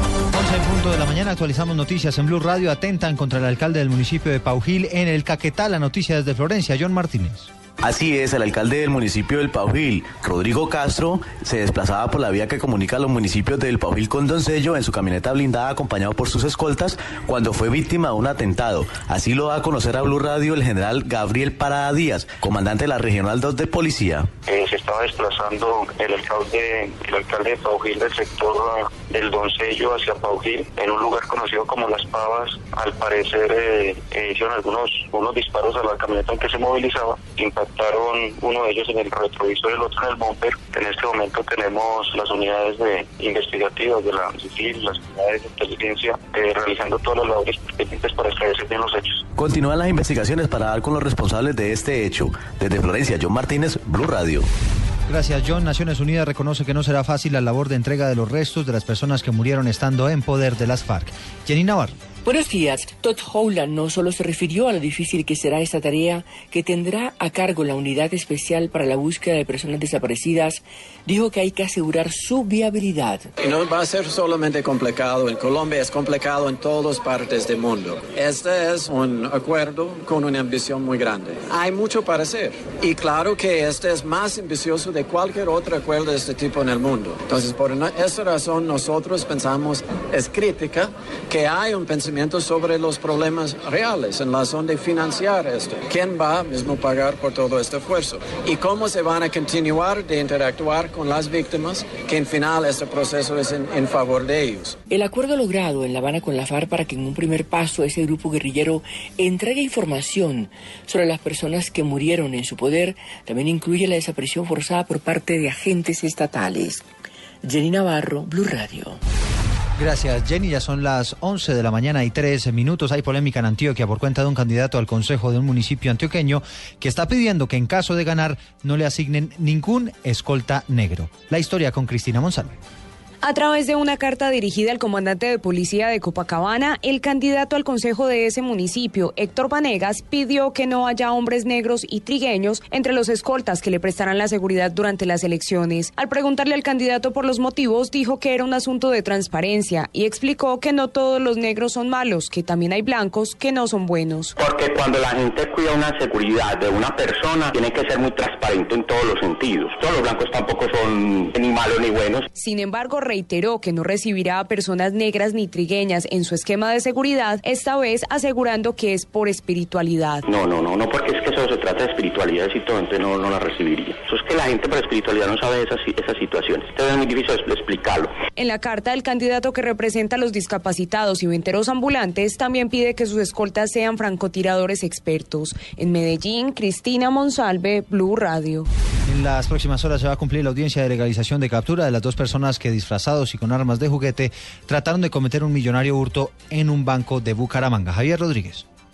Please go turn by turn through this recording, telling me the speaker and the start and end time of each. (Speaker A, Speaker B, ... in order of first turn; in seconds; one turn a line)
Speaker A: 0.3-7.5
Speaker B: 7.8-24.3
Speaker C: 24.4-49.2
Speaker B: 49.4-54.5
Speaker A: 55.1-62.0
Speaker D: 62.2-73.2
Speaker E: 73.4-104.7
Speaker D: 104.9-116.8
Speaker D: 117.4-119.0
Speaker A: 119.8-132.6
Speaker F: 133.2-154.3
Speaker G: 154.4-162.2
Speaker F: 162.3-170.2
Speaker G: 170.3-178.1
Speaker F: 178.3-188.7
Speaker A: 189.1-198.6